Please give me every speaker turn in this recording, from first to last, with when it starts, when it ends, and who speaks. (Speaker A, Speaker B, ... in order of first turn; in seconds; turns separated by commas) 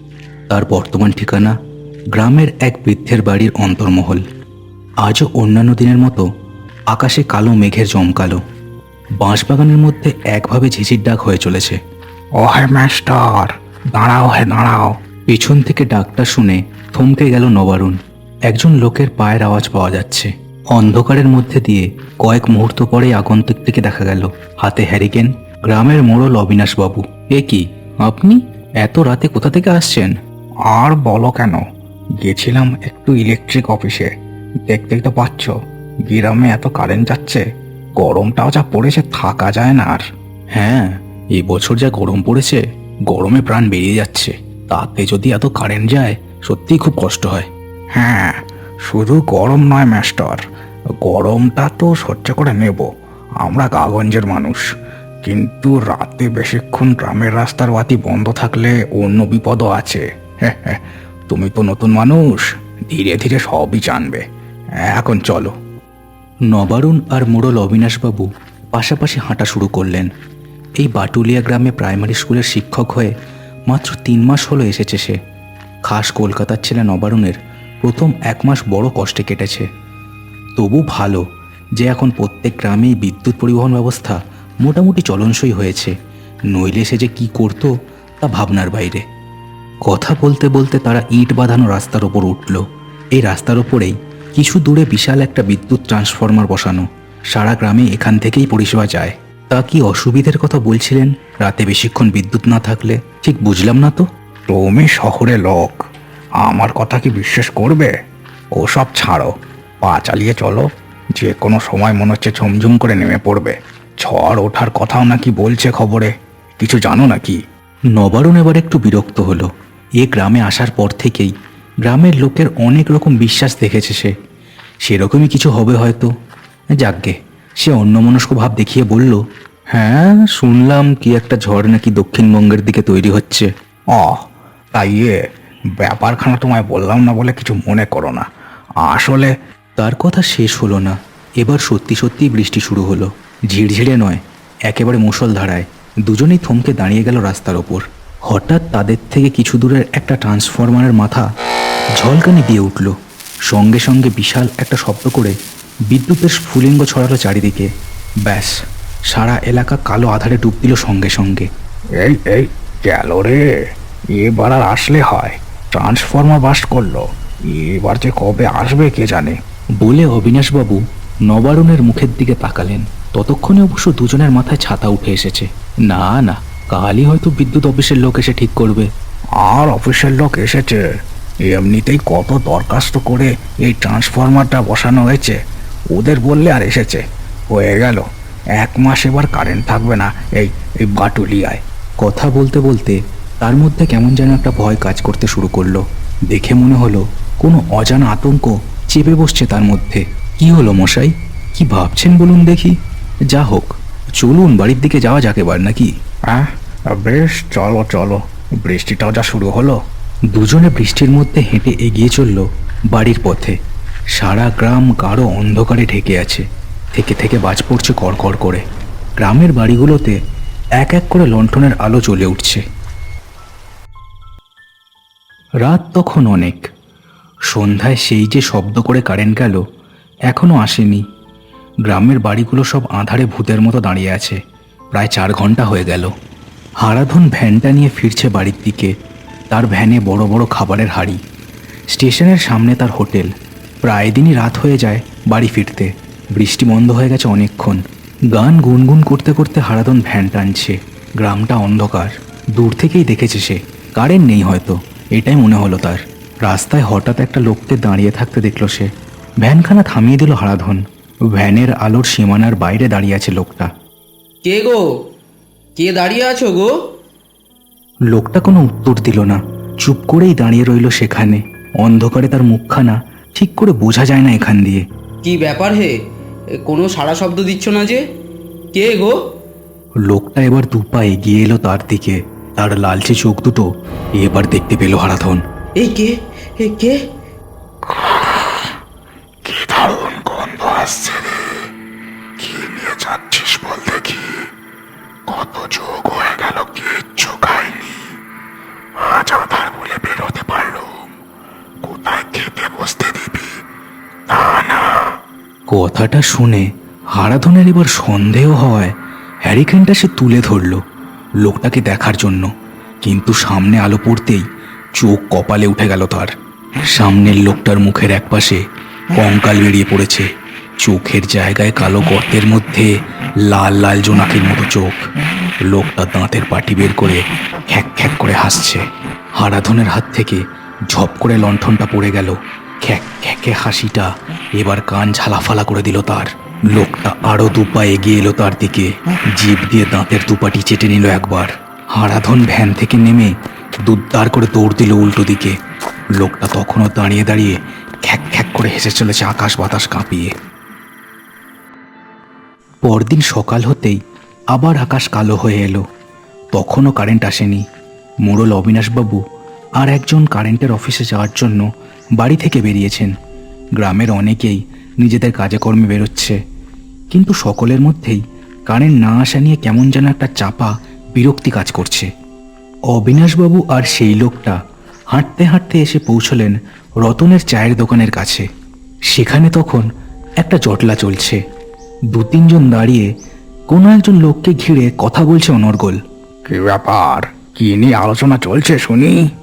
Speaker A: 0.5-1.5, Speaker A: 2.1-4.2, Speaker A: 5.0-6.3, Speaker A: 6.9-8.4, Speaker A: 9.2-11.8, Speaker B: 12.4-14.9, Speaker A: 15.3-18.0, Speaker A: 18.5-30.1, Speaker B: 30.7-31.6, Speaker B: 32.2-34.1, Speaker B: 34.7-35.5, Speaker B: 36.0-37.4, Speaker B: 38.0-40.0, Speaker A: 40.5-47.5, Speaker B: 48.0-50.4, Speaker B: 51.0-52.9, Speaker B: 53.4-54.6, Speaker B: 55.2-64.2, Speaker B: 64.8-65.5, Speaker A: 66.5-70.1, Speaker A: 70.8-73.1, Speaker A: 73.7-75.2, Speaker A: 75.9-79.7, Speaker A: 80.6-81.2, Speaker A: 81.8-85.9, Speaker A: 86.5-89.0, Speaker A: 89.9-92.6, Speaker A: 93.1-104.0, Speaker B: 104.5-105.8, Speaker B: 106.4-107.9, Speaker B: 108.6-109.3, Speaker B: 109.8-117.4, Speaker A: 118.0-119.5, Speaker A: 120.0-121.3, Speaker A: 121.8-124.1, Speaker A: 124.8-126.1, Speaker A: 126.8-129.2, Speaker A: 129.7-133.5, Speaker B: 133.9-135.2, Speaker B: 135.8-138.2, Speaker B: 138.8-139.3, Speaker A: 139.8-151.2, Speaker A: 152.0-152.9, Speaker A: 153.5-155.3, Speaker A: 155.9-157.7, Speaker A: 158.2-158.6, Speaker A: 159.1-161.5, Speaker B: 162.0-163.4, Speaker B: 164.1-169.4, Speaker A: 169.8-178.9, Speaker B: 179.4-180.8, Speaker B: 181.5-185.4, Speaker B: 185.9-188.0, Speaker B: 188.6-191.6, Speaker A: 192.0-202.8, Speaker A: 203.3-205.9, Speaker B: 206.3-209.8, Speaker A: 210.3-213.6, Speaker A: 214.1-216.4, Speaker A: 216.9-218.6, Speaker A: 219.2-220.2, Speaker A: 220.8-222.6, Speaker A: 225.6-226.7, Speaker A: 227.5-229.6, Speaker A: 230.3-231.0, Speaker A: 231.9-234.4, Speaker A: 234.9-236.1, Speaker A: 236.8-238.9, Speaker A: 239.5-241.2, Speaker A: 241.9-243.3, Speaker A: 243.8-258.9, Speaker A: 259.4-263.7, Speaker C: 264.4-264.9, Speaker C: 265.8-266.7, Speaker A: 268.1-274.8, Speaker C: 275.2-275.9, Speaker C: 276.6-278.0, Speaker C: 278.7-279.2, Speaker A: 280.1-285.4, Speaker C: 285.8-287.0, Speaker B: 287.9-288.6, Speaker B: 289.4-291.6, Speaker B: 292.4-294.4, Speaker B: 295.3-298.1, Speaker B: 299.0-301.1, Speaker B: 301.8-303.6, Speaker B: 304.3-305.1, Speaker A: 305.7-308.9, Speaker A: 309.4-310.8, Speaker A: 311.4-312.5, Speaker A: 313.0-314.4, Speaker A: 315.0-316.3, Speaker A: 316.8-318.6, Speaker A: 319.1-320.3, Speaker A: 320.8-322.9, Speaker A: 323.4-325.0, Speaker A: 325.7-328.8, Speaker A: 329.4-343.3, Speaker A: 343.9-345.6, Speaker A: 346.2-350.3, Speaker A: 352.8-354.0, Speaker A: 354.5-355.8, Speaker A: 356.5-357.6, Speaker A: 358.2-359.2, Speaker A: 359.8-361.7, Speaker A: 362.2-363.1, Speaker A: 363.8-366.4, Speaker A: 367.1-372.1, Speaker A: 372.9-374.6, Speaker A: 375.1-378.4, Speaker A: 379.1-379.9, Speaker A: 380.4-381.4, Speaker A: 382.1-383.1, Speaker A: 383.7-386.0, Speaker B: 386.5-389.2